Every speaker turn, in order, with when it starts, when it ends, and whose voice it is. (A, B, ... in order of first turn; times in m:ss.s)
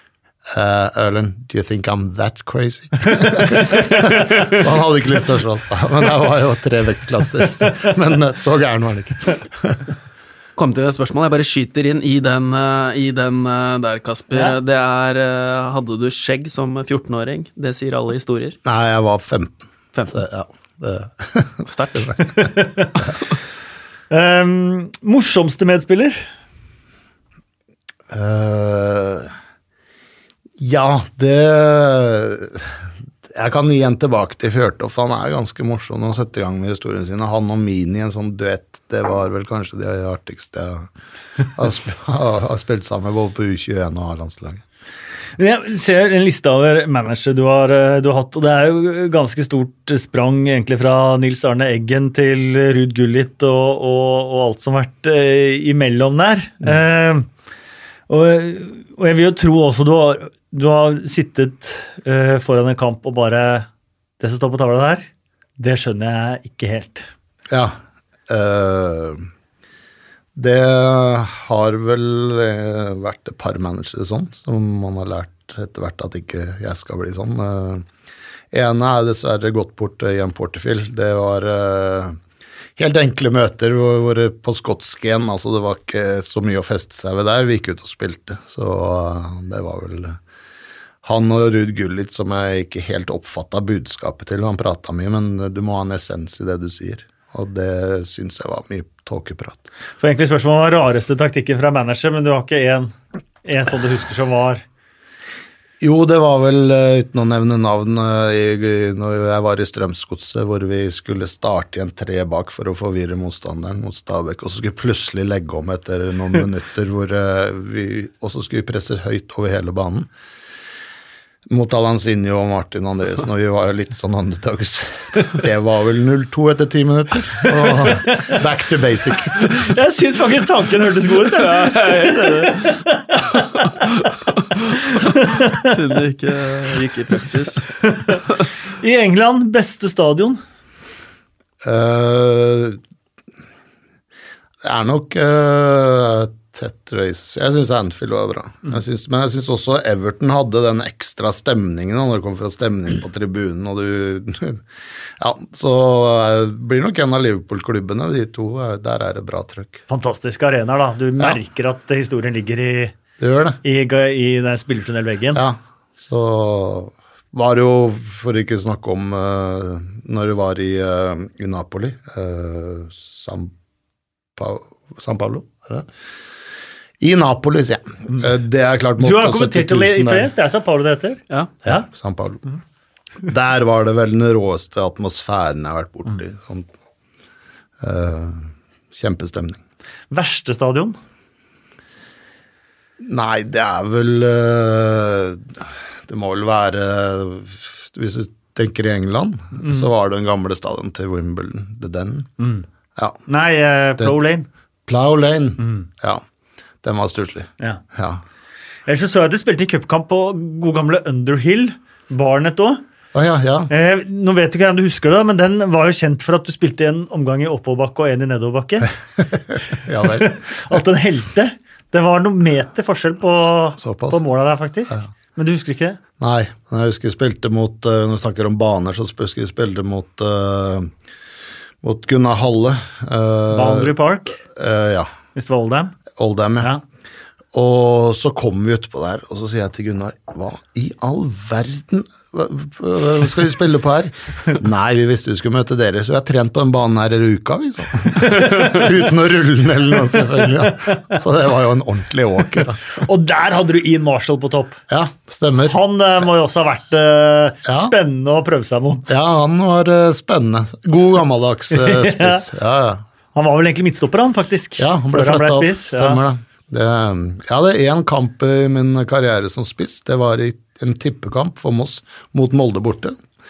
0:00.5-0:09.8 A
0:10.6-0:18.6 B
0:18.6-0:22.2 A
0:21.7-0:22.2 B
0:22.2-0:22.9 C
0:24.1-0:26.3 C
0:28.1-0:29.3 A
0:30.6-0:40.9 A
0:41.5-0:44.6 A
0:45.4-0:57.3 C
0:58.1-1:03.7 C
1:04.2-1:05.1 C
1:05.6-1:07.1 C
1:07.5-1:07.8 A
1:08.3-1:09.3 A
1:10.4-1:17.9 A
1:18.5-1:22.2 A
1:22.8-1:30.2 A
1:31.0-1:39.7 A
1:40.0-1:44.6 C
1:45.8-2:00.1 A
2:01.5-2:09.4 A
2:07.8-2:08.3 C
2:09.5-2:13.9 C
2:11.3-2:12.7 B
2:14.5-2:17.7 B
2:14.9-2:15.7 C
2:17.8-2:18.2 C
2:18.8-2:20.4 C
2:21.6-2:22.8 A
2:24.6-2:34.6 A
2:35.2-2:39.8 A
2:39.9-2:43.0 C
2:43.2-2:43.6 A
2:43.6-2:45.4 C
2:45.3-2:53.5 A
2:54.4-2:55.9 A
2:57.0-3:00.3 A
2:59.0-3:01.8 C
3:01.6-3:02.5 A
3:03.2-3:06.7 A
3:07.8-3:09.6 A
3:10.1-3:11.0 C
3:13.0-3:22.3 A
3:19.6-3:19.9 C
3:22.4-3:22.7 C
3:23.3-3:24.5 C
3:24.9-3:26.2 A
3:25.6-3:25.9 C
3:26.8-3:28.2 A
3:28.9-3:32.8 C
3:33.1-3:33.7 A
3:33.7-3:38.9 C
3:39.2-3:40.8 A
3:40.0-3:46.0 C
3:43.8-3:44.2 A
3:46.2-3:50.9 A
3:51.8-3:55.1 A
3:53.5-3:54.4 C
3:55.4-3:56.0 C
3:56.2-3:56.7 A
3:57.5-4:12.9 A
4:12.9-4:14.8 C
4:14.9-4:15.8 A
4:15.7-4:19.2 C
4:17.7-4:17.9 A
4:19.1-4:23.0 A
4:21.7-4:22.5 C
4:23.4-4:26.2 C
4:24.8-4:33.2 A